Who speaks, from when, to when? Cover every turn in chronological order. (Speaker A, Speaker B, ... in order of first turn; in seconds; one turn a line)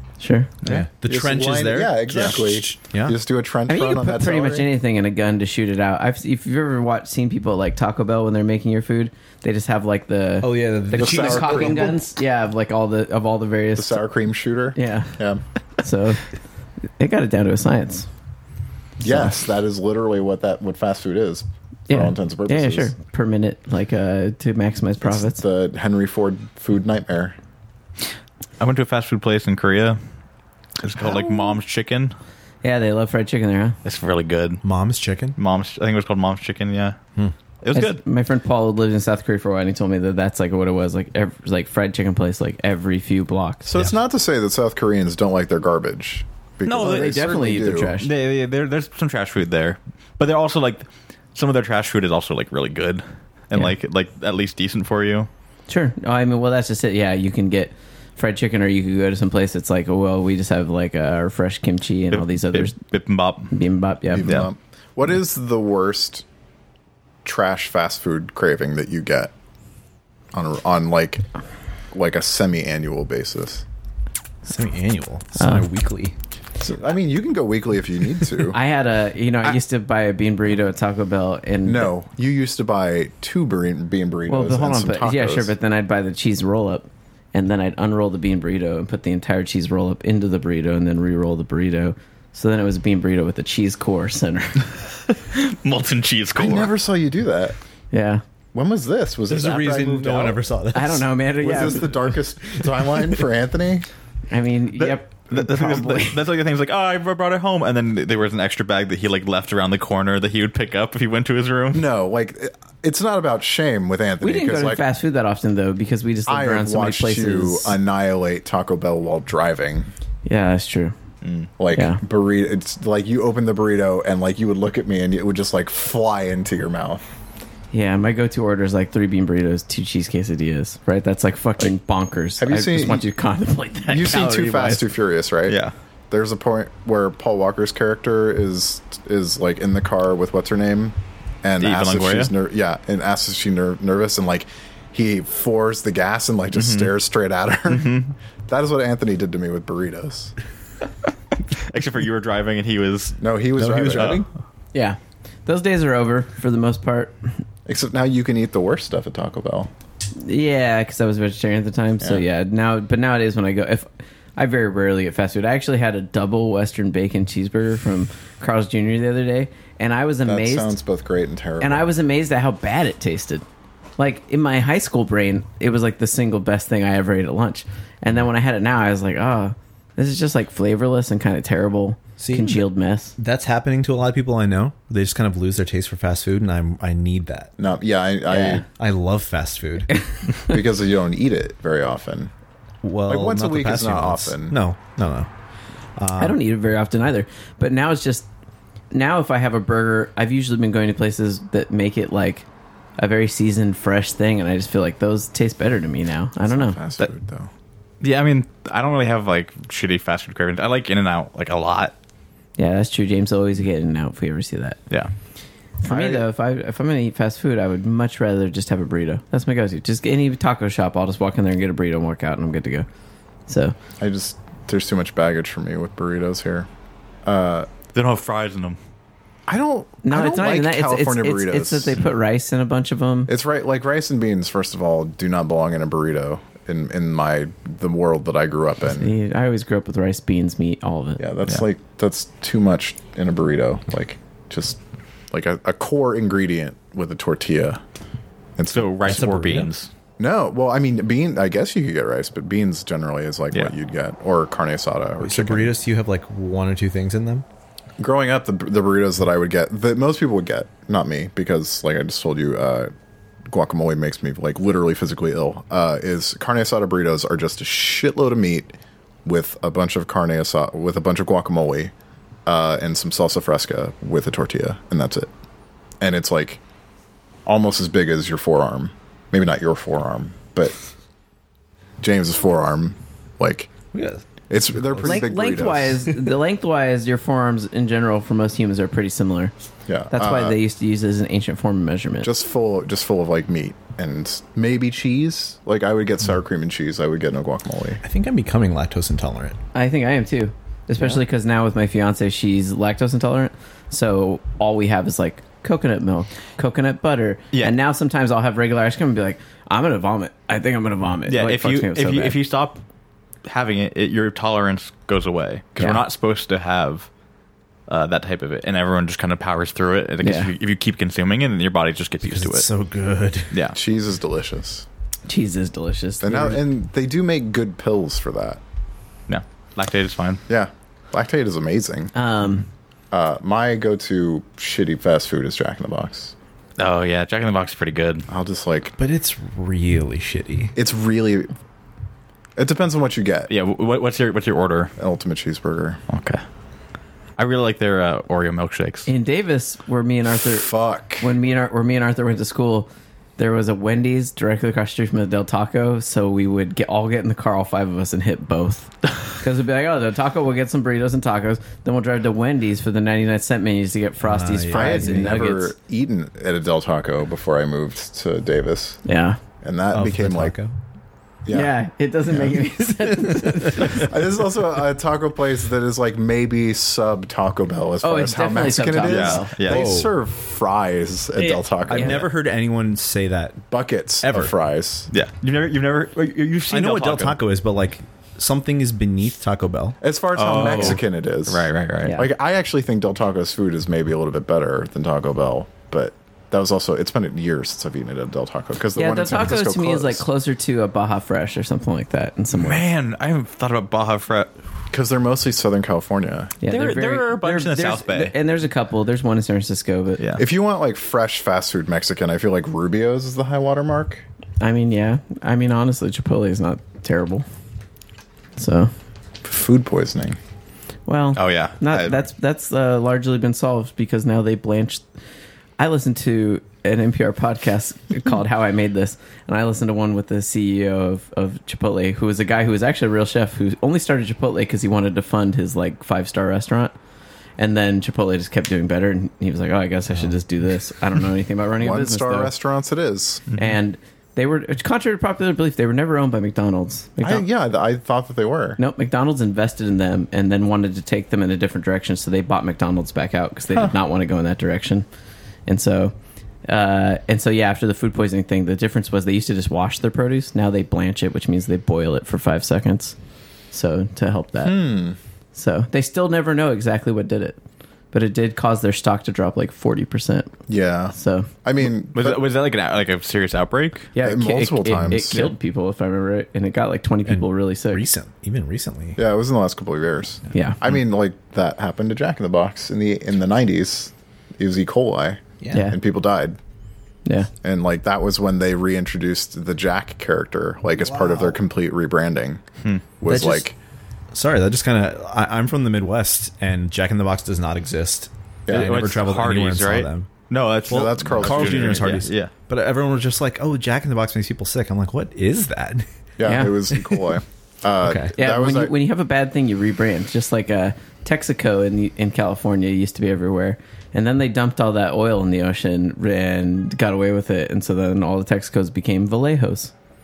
Speaker A: 0.2-0.5
Speaker B: 0.6-3.2
Speaker C: 0.7-4.7
Speaker A: 3.7-14.0
Speaker B: 10.4-11.9
Speaker C: 10.9-12.0
Speaker C: 13.8-15.4
Speaker A: 14.7-15.2
Speaker A: 15.8-16.2
Speaker A: 17.0-18.1
Speaker C: 19.0-22.9
Speaker A: 19.0-19.3
Speaker A: 21.9-25.4
Speaker C: 25.0-27.4
Speaker D: 28.6-30.0
Speaker D: 30.8-32.1
Speaker C: 30.9-31.6
Speaker A: 32.6-33.8
Speaker D: 33.8-34.6
Speaker B: 34.6-35.4
Speaker D: 35.4-37.0
Speaker D: 37.6-38.0
Speaker A: 37.7-43.7
Speaker C: 43.6-48.0
Speaker D: 46.6-47.1
Speaker A: 46.7-48.1
Speaker D: 48.0-55.3
Speaker A: 55.7-62.7
Speaker D: 62.1-63.5
Speaker A: 63.5-64.3
Speaker C: 64.1-66.2
Speaker D: 64.2-64.5
Speaker C: 67.2-69.3
Speaker C: 70.3-71.2
Speaker C: 71.9-73.6
Speaker B: 74.4-76.2
Speaker A: 75.3-75.6
Speaker C: 76.6-78.6
Speaker A: 78.5-81.9
Speaker C: 81.6-85.5
Speaker A: 84.3-94.7
Speaker D: 95.3-96.7
Speaker C: 96.3-97.5
Speaker A: 97.9-98.2
Speaker C: 98.5-100.4
Speaker B: 99.3-102.9
Speaker A: 100.7-101.9
Speaker C: 101.4-103.8
Speaker A: 104.3-106.2
Speaker D: 104.8-111.8
Speaker C: 111.7-114.8
Speaker A: 114.2-117.8
Speaker C: 116.3-119.9
Speaker A: 120.2-120.9
Speaker D: 121.2-121.5
Speaker C: 121.6-127.0
Speaker A: 121.7-122.0
Speaker A: 127.7-134.8
Speaker C: 132.4-133.1
Speaker C: 133.9-135.6
Speaker D: 135.5-135.7
Speaker C: 136.1-150.3
Speaker D: 141.6-142.3
Speaker D: 146.5-146.9
Speaker D: 147.7-148.1
Speaker D: 151.6-153.2
Speaker C: 153.2-154.3
Speaker B: 153.6-154.2
Speaker D: 153.8-154.2
Speaker A: 154.7-157.2
Speaker C: 157.7-159.7
Speaker A: 160.2-170.8
Speaker C: 170.2-171.9
Speaker A: 171.6-173.4
Speaker A: 174.0-183.2
Speaker B: 182.2-182.6
Speaker B: 183.2-187.5
Speaker C: 187.6-188.6
Speaker A: 188.3-188.6
Speaker B: 188.7-189.9
Speaker C: 190.4-192.3
Speaker B: 192.8-195.3
Speaker C: 193.1-194.6
Speaker B: 196.0-196.4
Speaker A: 196.2-198.2
Speaker A: 198.9-202.4
Speaker A: 203.0-206.8
Speaker C: 206.5-207.5
Speaker D: 208.0-211.9
Speaker A: 212.6-214.8
Speaker A: 215.8-222.8
Speaker C: 215.8-216.2
Speaker A: 223.5-223.8
Speaker C: 224.0-226.7
Speaker C: 227.2-227.7
Speaker D: 227.9-228.8
Speaker C: 229.5-232.0
Speaker A: 230.0-233.3
Speaker C: 233.3-239.1
Speaker A: 238.8-241.2
Speaker C: 241.2-244.8
Speaker C: 245.3-247.8
Speaker C: 248.6-249.3
Speaker D: 248.7-249.9
Speaker B: 249.1-249.7
Speaker C: 250.2-255.7
Speaker B: 255.2-257.4
Speaker C: 258.0-262.9
Speaker C: 263.5-271.9
Speaker C: 272.4-275.3
Speaker C: 276.0-276.6
Speaker C: 277.4-280.7
Speaker C: 282.0-283.7
Speaker B: 283.9-285.2
Speaker C: 284.5-286.1
Speaker A: 285.0-289.5
Speaker C: 289.9-290.6
Speaker A: 290.1-292.3
Speaker C: 292.2-298.0
Speaker B: 298.0-299.6
Speaker A: 299.7-312.4
Speaker D: 311.3-312.8
Speaker D: 313.4-317.1
Speaker A: 315.8-316.0
Speaker D: 317.9-322.7
Speaker A: 320.2-320.5
Speaker B: 322.2-323.6
Speaker D: 323.5-323.8
Speaker C: 323.7-324.9
Speaker A: 325.3-326.7
Speaker C: 326.2-328.6
Speaker D: 329.3-330.4
Speaker C: 330.5-332.1
Speaker A: 332.1-332.7
Speaker C: 333.1-336.3
Speaker D: 336.8-338.2
Speaker C: 338.3-338.9
Speaker B: 339.0-340.7
Speaker C: 340.8-341.5
Speaker C: 342.6-343.5
Speaker D: 343.5-344.9
Speaker C: 345.0-346.0
Speaker D: 346.1-346.4
Speaker D: 347.4-349.1
Speaker A: 349.1-350.7
Speaker C: 350.4-351.3
Speaker A: 351.2-365.7
Speaker B: 364.2-365.4
Speaker C: 364.7-369.0
Speaker A: 369.0-369.4
Speaker C: 369.6-370.5
Speaker B: 369.9-370.7
Speaker C: 371.4-371.7
Speaker A: 371.5-374.1
Speaker C: 373.8-382.3
Speaker A: 378.0-379.5
Speaker D: 379.0-379.9
Speaker B: 379.7-380.1
Speaker A: 381.4-382.2
Speaker B: 381.9-383.6
Speaker C: 383.7-385.1
Speaker B: 384.2-384.5
Speaker D: 385.1-387.4
Speaker B: 386.7-390.0
Speaker C: 390.0-400.2
Speaker D: 390.3-392.2
Speaker A: 392.0-392.3
Speaker A: 398.9-402.8
Speaker D: 402.5-404.5
Speaker C: 404.9-406.6
Speaker A: 406.6-410.2
Speaker D: 406.6-408.3
Speaker D: 410.2-410.4
Speaker C: 410.4-414.2
Speaker A: 414.6-417.4
Speaker A: 418.6-418.9
Speaker C: 419.4-420.4
Speaker A: 421.1-425.0
Speaker D: 421.4-422.2
Speaker A: 425.8-436.9
Speaker A: 437.6-442.5
Speaker C: 441.8-443.4
Speaker A: 443.5-447.4
Speaker C: 447.2-448.8
Speaker A: 448.8-455.1
Speaker A: 455.7-456.1
Speaker A: 456.6-463.1
Speaker A: 463.7-464.9
Speaker C: 464.6-465.2
Speaker A: 465.5-467.6
Speaker A: 468.1-470.6
Speaker C: 470.7-472.4
Speaker A: 471.1-471.5
Speaker D: 472.1-474.1
Speaker A: 474.1-478.1
Speaker C: 474.2-475.5
Speaker B: 477.3-479.2
Speaker C: 479.2-486.6
Speaker A: 480.5-480.8
Speaker B: 485.6-485.9
Speaker A: 485.7-486.0
Speaker C: 487.6-492.6
Speaker B: 491.0-491.6
Speaker D: 492.8-493.1
Speaker C: 493.2-493.8
Speaker B: 493.2-493.7
Speaker B: 494.3-500.3
Speaker C: 498.7-499.0
Speaker D: 498.7-502.5
Speaker C: 500.9-502.2
Speaker B: 500.9-506.1
Speaker C: 506.4-508.9
Speaker A: 506.4-506.8
Speaker B: 508.0-508.3
Speaker A: 508.4-519.9